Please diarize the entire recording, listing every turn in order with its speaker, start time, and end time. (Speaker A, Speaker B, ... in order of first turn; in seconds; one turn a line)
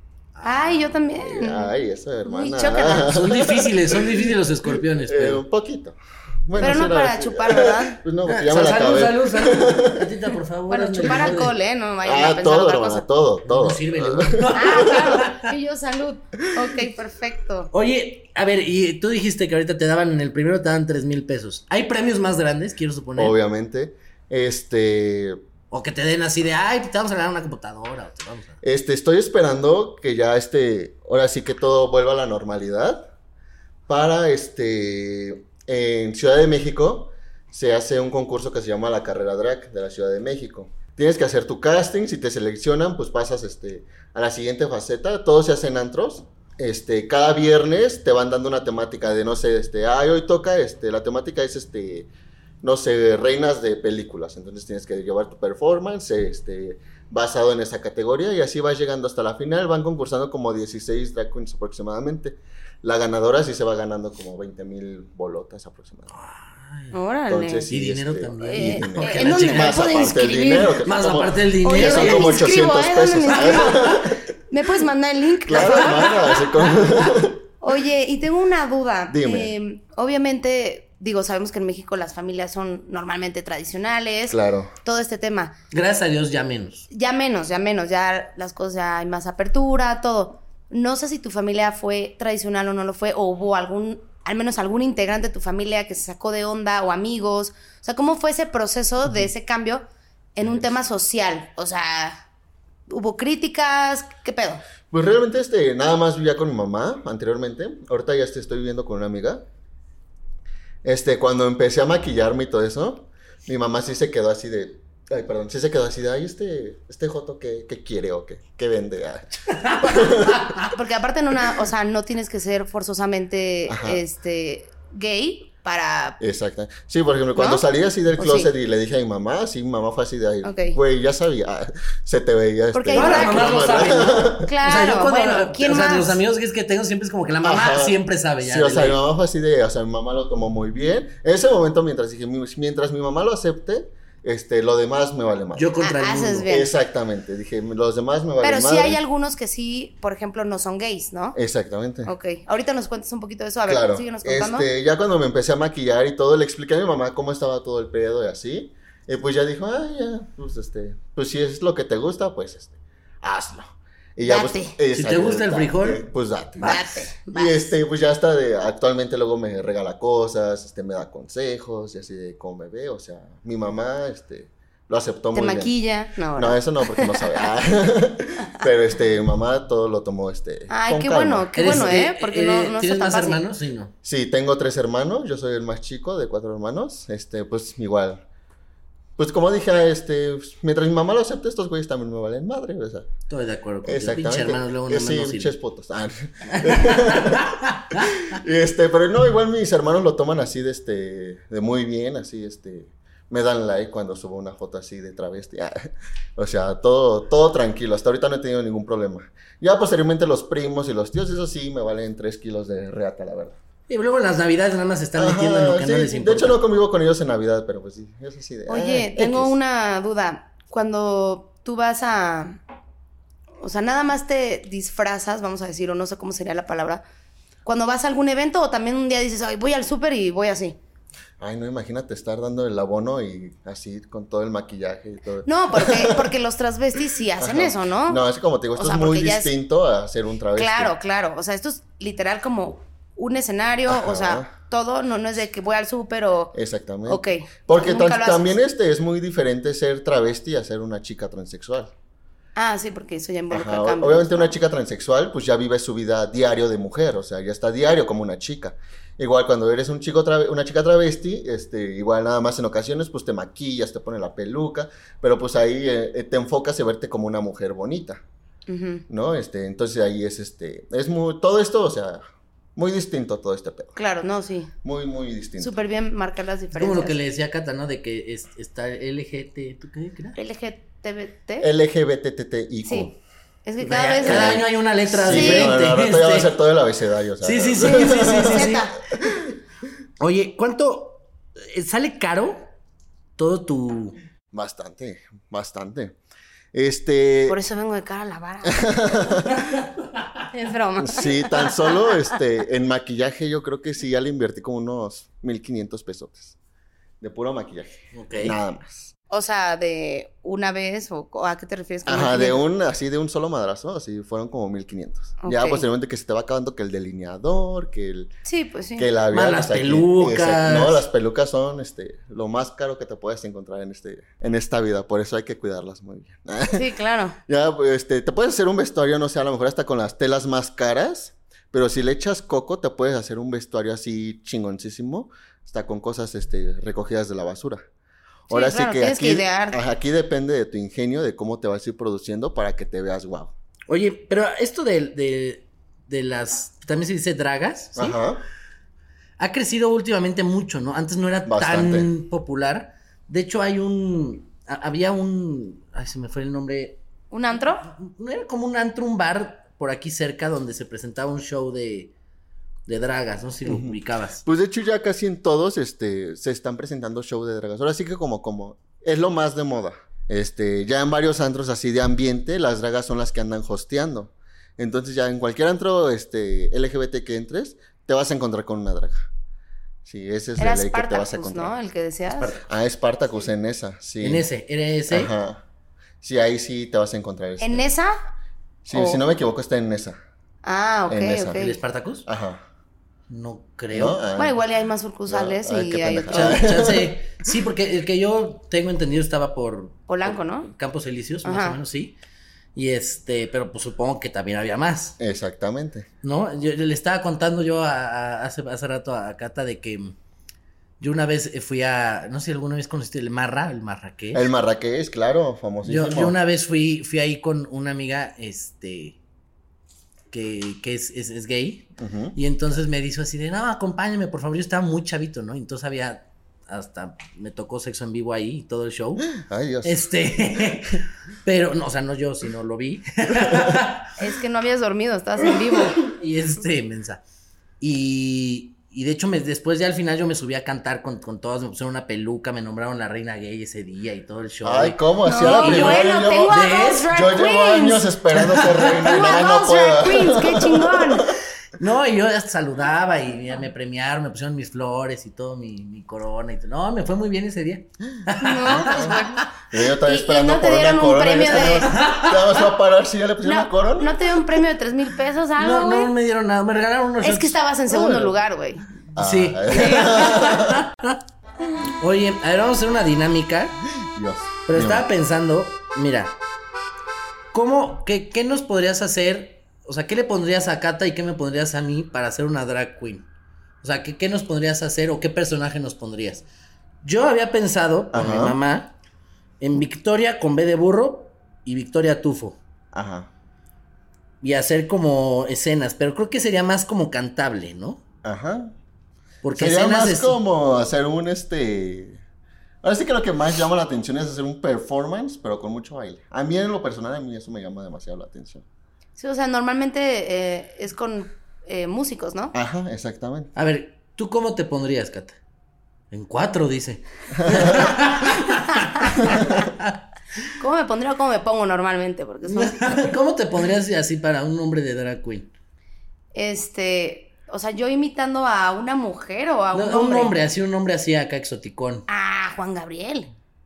Speaker A: 0.3-0.8
Speaker B: 0.4-3.1
Speaker C: 1.1-10.1
Speaker A: 3.0-5.4
Speaker B: 6.6-8.0
Speaker A: 8.3-11.5
Speaker B: 10.7-13.0
Speaker C: 12.0-14.9
Speaker A: 13.4-15.5
Speaker B: 14.5-17.7
Speaker A: 17.7-23.3
Speaker C: 23.1-25.4
Speaker A: 25.7-28.6
Speaker C: 28.6-33.1
Speaker C: 33.9-52.1
Speaker C: 52.6-66.1
Speaker A: 66.1-66.9
Speaker B: 66.9-67.7
Speaker C: 67.3-74.2
Speaker A: 67.7-69.9
Speaker B: 68.4-70.8
Speaker A: 70.8-72.4
Speaker B: 71.6-76.2
Speaker C: 75.5-77.4
Speaker A: 75.7-76.5
Speaker B: 77.6-85.5
Speaker C: 79.1-79.5
Speaker C: 84.3-84.7
Speaker A: 85.7-86.9
Speaker B: 86.9-99.8
Speaker B: 100.3-102.2
Speaker B: 102.9-104.6
Speaker C: 104.9-109.5
Speaker C: 110.8-120.6
Speaker A: 119.5-120.7
Speaker B: 120.7-126.2
Speaker C: 123.7-124.0
Speaker C: 126.2-134.5
Speaker B: 127.3-127.7
Speaker B: 128.2-128.5
Speaker B: 130.4-130.8
Speaker B: 132.7-136.2
Speaker A: 132.9-139.0
Speaker C: 137.4-145.7
Speaker A: 145.5-146.5
Speaker B: 145.8-146.7
Speaker C: 146.5-149.0
Speaker B: 148.4-151.4
Speaker C: 151.3-152.1
Speaker B: 152.1-154.7
Speaker C: 153.7-175.7
Speaker B: 164.2-164.8
Speaker A: 164.9-166.0
Speaker B: 166.6-167.7
Speaker B: 175.3-177.4
Speaker C: 176.3-182.0
Speaker B: 180.7-183.4
Speaker A: 181.5-183.9
Speaker C: 184.0-188.2
Speaker C: 189.2-193.1
Speaker A: 193.3-195.5
Speaker C: 193.8-213.6
Speaker A: 196.5-198.2
Speaker A: 213.9-216.6
Speaker C: 215.2-219.5
Speaker B: 218.7-222.6
Speaker B: 223.6-227.0
Speaker B: 227.6-230.8
Speaker C: 231.4-236.3
Speaker B: 235.4-238.2
Speaker C: 237.4-240.9
Speaker B: 238.7-239.5
Speaker B: 240.5-246.5
Speaker C: 243.9-244.5
Speaker C: 246.5-251.9
Speaker B: 247.1-248.5
Speaker B: 252.6-254.6
Speaker C: 253.5-268.2
Speaker B: 268.7-269.0
Speaker C: 269.1-272.2
Speaker C: 272.8-273.9
Speaker B: 273.9-274.7
Speaker C: 274.8-275.7
Speaker B: 275.6-277.2
Speaker A: 276.8-280.4
Speaker B: 280.4-281.7
Speaker C: 281.6-283.1
Speaker B: 282.8-283.1
Speaker B: 283.6-284.6
Speaker A: 283.8-286.5
Speaker C: 284.2-289.5
Speaker B: 285.3-285.7
Speaker A: 287.4-288.9
Speaker B: 287.8-288.9
Speaker A: 290.2-292.6
Speaker A: 293.4-294.1
Speaker C: 294.5-296.2
Speaker C: 296.7-297.6
Speaker B: 297.5-298.9
Speaker C: 298.6-299.7
Speaker B: 300.5-302.2
Speaker C: 301.0-306.6
Speaker C: 307.2-309.1
Speaker A: 308.1-308.6
Speaker B: 309.3-312.6
Speaker C: 312.0-318.3
Speaker B: 315.4-315.9
Speaker B: 318.4-319.1
Speaker C: 319.0-326.8
Speaker A: 319.3-321.1
Speaker B: 326.7-327.4
Speaker C: 327.5-337.8
Speaker B: 338.5-339.8
Speaker C: 338.5-343.5
Speaker A: 343.9-348.2
Speaker C: 347.9-348.4
Speaker A: 349.4-357.0
Speaker C: 351.4-352.1
Speaker B: 357.3-357.9
Speaker A: 357.8-362.1
Speaker A: 362.9-364.4
Speaker C: 363.6-379.3
Speaker C: 380.0-381.8
Speaker B: 380.6-382.6
Speaker C: 382.6-384.5
Speaker A: 384.2-385.3
Speaker C: 385.1-385.6
Speaker C: 386.2-387.9
Speaker B: 387.6-388.1
Speaker C: 388.8-390.2
Speaker B: 388.9-389.2
Speaker B: 390.6-391.8
Speaker C: 391.1-391.7
Speaker A: 391.6-392.2
Speaker C: 392.2-392.6
Speaker A: 393.3-394.2
Speaker C: 393.9-394.6
Speaker B: 394.3-396.6
Speaker C: 395.3-397.1
Speaker A: 396.3-402.1
Speaker B: 400.1-400.7
Speaker B: 401.4-401.8
Speaker A: 402.7-405.2
Speaker C: 405.2-406.1
Speaker A: 406.2-410.1
Speaker A: 411.0-414.5
Speaker C: 414.3-416.4
Speaker A: 415.8-419.2
Speaker A: 420.3-429.3
Speaker C: 422.0-422.4
Speaker C: 429.3-430.1
Speaker A: 429.8-434.1
Speaker C: 433.4-433.8
Speaker B: 434.2-436.0
Speaker A: 435.9-437.2
Speaker A: 437.8-447.1
Speaker C: 444.6-451.3
Speaker B: 445.2-448.1
Speaker A: 448.3-449.1
Speaker B: 448.8-451.3
Speaker A: 451.8-459.5
Speaker B: 458.4-459.4
Speaker C: 458.7-464.4
Speaker B: 460.1-461.9
Speaker A: 461.7-462.6
Speaker B: 463.4-466.1
Speaker A: 465.6-467.6
Speaker B: 467.2-468.8
Speaker C: 467.9-468.3
Speaker C: 469.1-470.8
Speaker A: 469.1-471.2
Speaker A: 471.9-473.8
Speaker C: 474.1-475.1
Speaker A: 474.7-476.3
Speaker A: 477.5-483.2
Speaker A: 483.8-486.4
Speaker A: 487.0-488.9
Speaker C: 488.1-488.6
Speaker A: 489.6-492.6
Speaker C: 492.9-493.3
Speaker A: 494.4-498.0
Speaker C: 498.2-498.7
Speaker A: 499.4-500.4
Speaker C: 499.5-502.2
Speaker C: 502.8-508.6
Speaker B: 509.2-512.5
Speaker C: 512.5-513.5
Speaker A: 513.5-515.4
Speaker A: 516.1-520.0
Speaker C: 517.4-517.9
Speaker B: 518.7-519.4
Speaker C: 519.2-519.6
Speaker B: 520.6-523.0
Speaker A: 522.5-525.5
Speaker B: 526.3-530.3
Speaker A: 529.7-532.0
Speaker B: 532.1-533.3